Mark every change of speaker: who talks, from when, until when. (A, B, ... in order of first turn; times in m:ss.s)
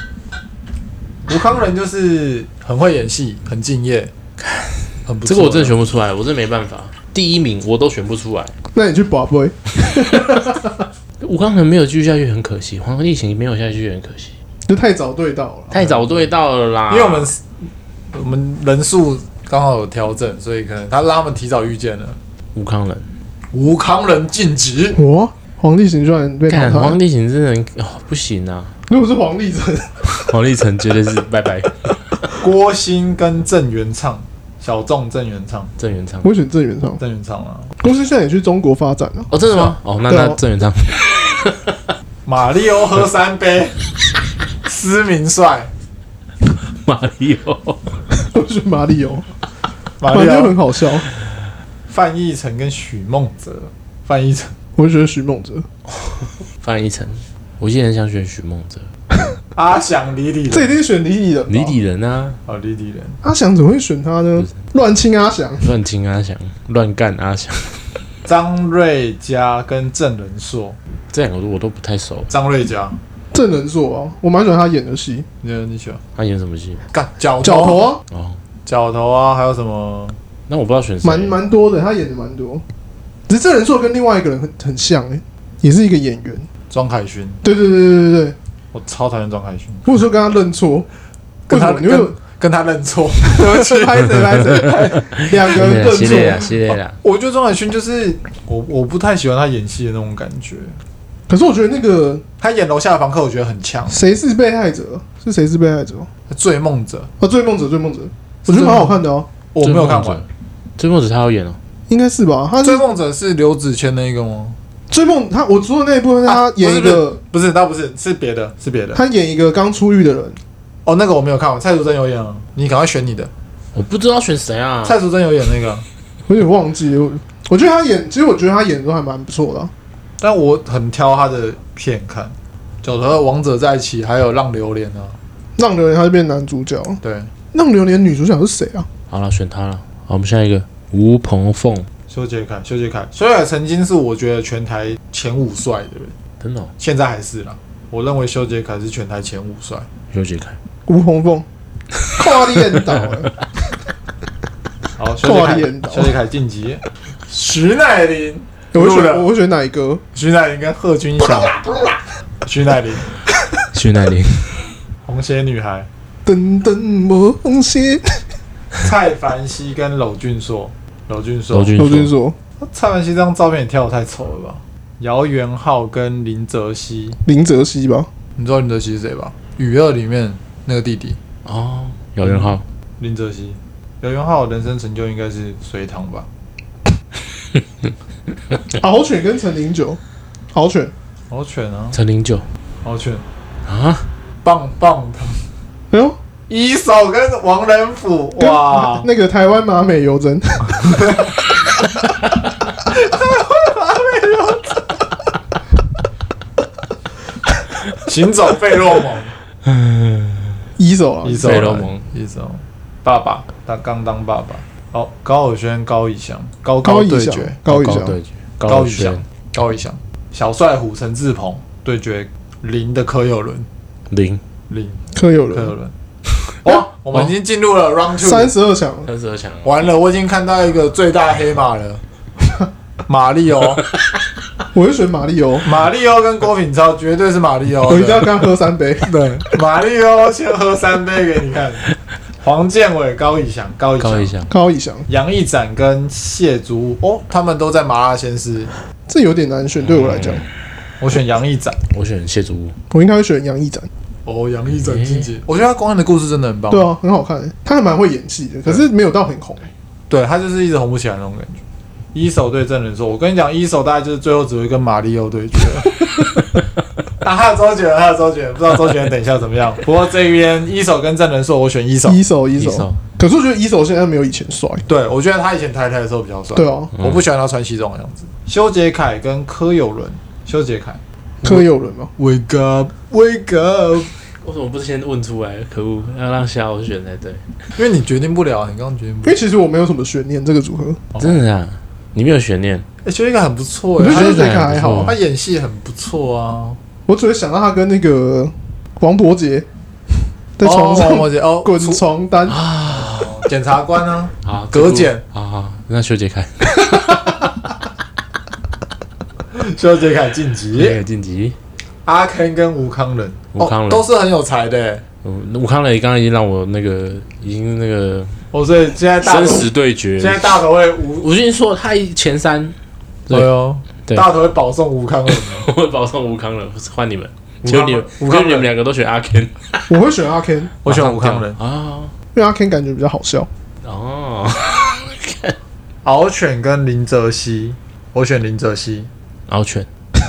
0:01.3-0:04.1 A
0:04.4-0:08.5 B
0:05.1-0:05.8 A
0:08.8-0:10.8 C
0:11.2-0:14.3 B
0:14.7-0:16.0 C
0:15.7-0:17.3 B
0:15.8-0:16.2 A
0:16.9-0:22.2 A
0:22.6-0:23.1 B
0:23.5-0:25.0 A
0:25.0-0:27.0 C
0:26.5-0:28.8 B
0:28.9-0:30.1 C
0:30.2-0:32.1 B
0:32.4-0:35.7 A
0:35.8-0:36.3 B
0:36.2-0:37.0 C
0:37.0-0:37.7 A
0:37.8-0:40.4 C
0:39.3-0:41.9 B
0:42.2-0:43.8 A
0:44.6-0:45.7 A
0:46.5-0:48.0 B
0:48.2-0:49.3 C
0:50.0-0:50.6 A
0:50.1-0:51.1 C
0:51.9-0:54.6 A
0:54.8-0:55.7 C
0:55.9-0:58.9 B
0:59.6-1:00.7 A
1:00.5-1:01.8 C
1:01.5-1:02.4 B
1:02.5-1:03.2 A
1:03.2-1:05.7 C
1:05.6-1:08.0 B
1:08.3-1:10.8 A
1:11.1-1:12.3 B
1:12.3-1:13.0 A
1:13.3-1:15.3 C
1:15.4-1:16.0 A
1:16.2-1:16.8 B
1:16.9-1:17.9 A
1:17.4-1:18.0 C
1:18.1-1:18.4 B
1:18.7-1:20.2 A
1:20.5-1:21.4 B
1:21.0-1:22.6 C
1:23.3-1:26.5 C
1:26.7-1:27.4 A
1:27.4-1:28.4 C
1:28.7-1:29.9 A
1:29.8-1:30.9 C
1:31.5-1:35.1 A
1:31.5-1:32.2 C
1:33.3-1:36.5 C
1:35.2-1:37.0 B
1:37.0-1:40.8 A
1:41.3-1:42.2 C
1:42.4-1:44.0 A
1:43.9-1:46.1 C
1:46.3-1:47.1 A
1:47.2-1:49.3 C
1:48.4-1:50.2 A
1:49.6-1:50.3 B
1:50.8-1:51.6 B
1:51.9-1:52.9 C
1:52.6-1:54.6 A
1:54.9-1:57.2 C
1:56.3-1:59.0 A
1:59.0-2:00.4 C
2:00.8-2:03.3 A
2:03.7-2:05.0 B
2:04.8-2:05.8 A
2:06.3-2:09.7 C
2:10.2-2:15.2 A
2:15.6-2:17.0 C
2:17.0-2:17.3 A
2:17.5-2:18.9 C
2:19.1-2:21.9 B
2:22.1-2:26.1 A
2:26.4-2:26.7 B
2:26.8-2:29.9 A
2:30.1-2:30.6 B
2:30.9-2:31.5 C
2:32.1-2:33.3 C
2:35.0-2:39.3 A
2:35.2-2:36.1 C
2:38.7-2:40.0 C
2:40.1-2:41.6 A
2:42.4-2:43.1 A
2:43.7-2:44.7 B
2:45.0-2:45.9 A
2:46.2-2:48.2 C
2:48.8-2:51.8 A
2:51.5-2:52.1 B
2:51.8-2:52.4 C
2:52.6-2:57.2 A
2:57.2-2:58.1 C
2:58.4-3:01.2 A
3:01.4-3:02.6 B
3:02.2-3:06.3 A
3:08.8-3:10.0 C
3:10.5-3:10.9 C
3:11.3-3:12.0 A
3:11.9-3:12.4 B
3:12.8-3:13.2 A
3:13.7-3:14.1 B
3:14.4-3:15.4 A
3:15.9-3:16.2 C
3:16.5-3:19.1 A
3:18.4-3:21.1 C
3:20.8-3:21.3 A
3:22.9-3:24.9 A
3:28.0-3:29.3 A
3:29.7-3:30.5 B
3:30.8-3:31.6 C
3:31.2-3:37.6 A
3:31.3-3:32.0 B
3:36.8-3:38.2 C
3:37.7-3:39.2 B
3:38.7-3:43.7 A
3:44.1-3:44.4 B
3:44.7-3:45.9 A
3:45.1-3:45.7 C
3:46.6-3:48.5 A
3:48.2-3:49.1 C
3:49.1-3:49.8 B
3:49.6-3:52.0 A
3:53.1-3:53.8 A
3:54.7-3:55.7 C
3:55.6-3:58.4 A
3:57.9-3:59.1 C
3:59.0-4:01.8 A
4:02.4-4:04.3 A
4:04.0-4:04.5 B
4:04.5-4:05.1 C
4:05.1-4:08.7 A
4:09.1-4:10.4 C
4:09.8-4:10.5 B
4:11.0-4:11.8 A
4:11.9-4:12.8 B
4:12.9-4:13.9 C
4:14.3-4:16.9 A
4:14.8-4:15.3 B
4:16.7-4:19.7 C
4:20.1-4:21.6 A
4:22.1-4:26.0 A
4:27.2-4:32.2 A
4:32.1-4:34.8 C
4:32.6-4:33.0 B
4:34.9-4:41.7 A
4:36.6-4:36.9 C
4:41.4-4:42.1 C
4:42.2-4:44.1 A
4:44.4-4:47.4 B
4:47.8-4:49.4 A
4:49.2-4:51.0 C
4:51.1-4:51.4 A
4:51.2-4:52.9 B
4:53.0-4:56.8 A
4:54.0-4:55.1 C
4:54.0-4:55.2 B
4:57.1-4:59.7 C
5:00.6-5:02.6 C
5:00.6-5:02.0 A
5:02.5-5:03.4 B
5:02.8-5:05.2 A
5:04.4-5:07.5 B
5:09.5-5:11.0 A
5:10.8-5:11.6 B
5:12.0-5:15.0 A
5:13.6-5:14.0 B
5:15.2-5:18.4 B
5:18.5-5:21.3 A
5:19.2-5:20.6 B
5:21.2-5:22.8 B
5:23.3-5:25.7 A
5:24.0-5:24.3 B
5:25.3-5:29.9 B
5:27.6-5:28.7 A
5:29.9-5:30.7 C
5:30.8-5:31.6 A
5:30.8-5:32.1 B
5:32.4-5:33.5 C
5:33.8-5:35.6 B
5:36.0-5:39.1 A
5:39.5-5:39.9 B